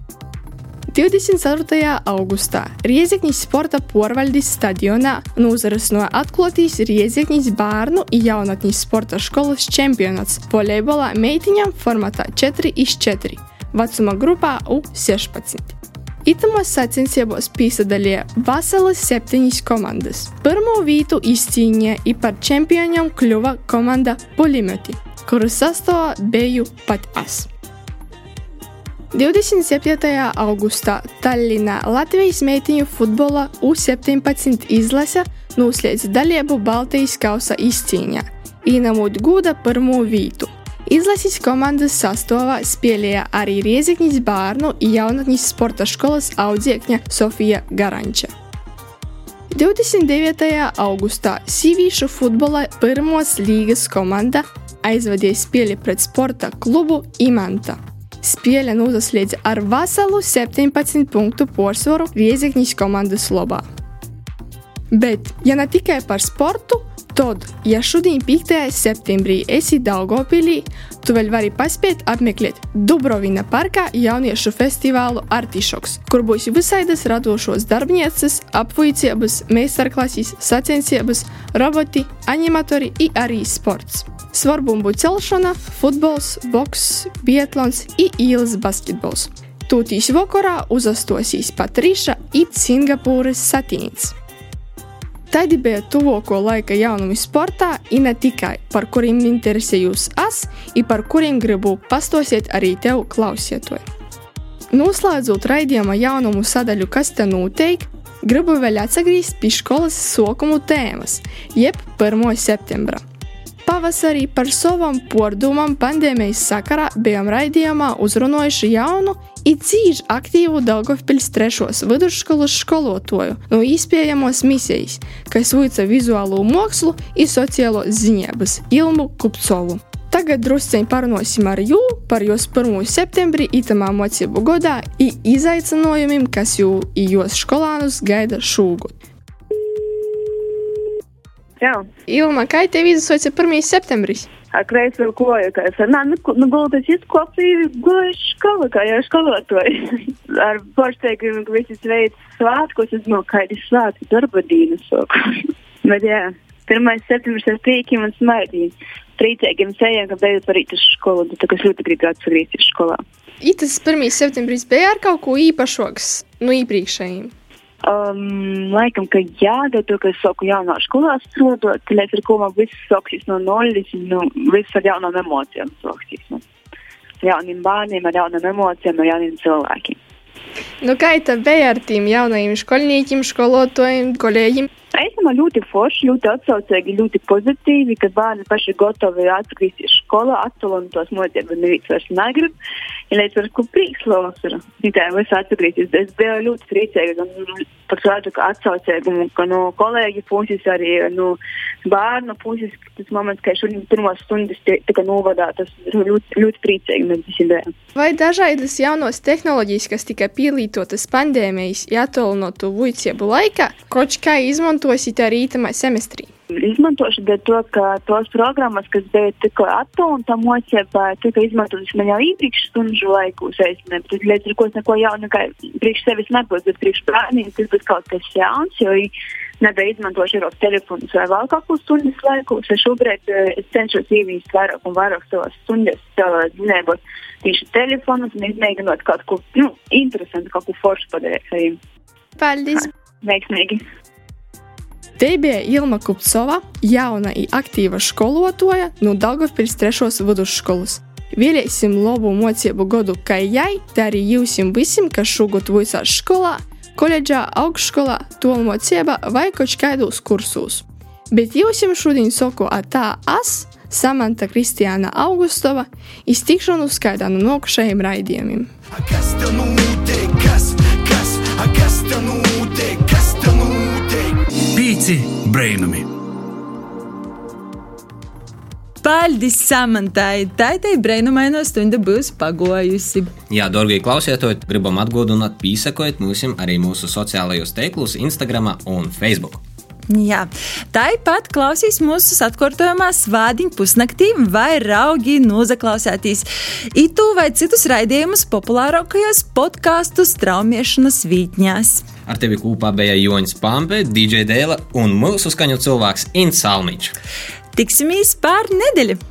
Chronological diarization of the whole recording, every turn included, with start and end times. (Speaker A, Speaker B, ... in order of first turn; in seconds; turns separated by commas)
Speaker A: 0.9-27.5, Speaker A: 29.1-48.3, Speaker A: 49.5-63.6, Speaker A: 64.9-94.1, Speaker A: 95.3-103.8, Speaker A: 104.7-113.0, Speaker A: 113.7-138.9, Speaker B: 141.6-141.9, Speaker A: 142.1-144.3, Speaker B: 144.5-163.0, Speaker A: 163.4-167.3, Speaker B: 167.8-176.4, Speaker B: 177.2-180.0, Speaker A: 180.8-184.7, Speaker B: 184.9-192.5, Speaker B: 193.1-207.7, Speaker A: 207.9-216.3, Speaker B: 216.6-241.8, Speaker A: 242.4-242.9, Speaker B: 243.2-243.8, Speaker A: 245.2-268.7, Speaker C: 273.1-276.1, Speaker D: 279.0-283.3, Speaker E: 283.5-289.6, Speaker D: 290.1-302.0, Speaker E: 302.2-307.1, Speaker D: 307.8-309.2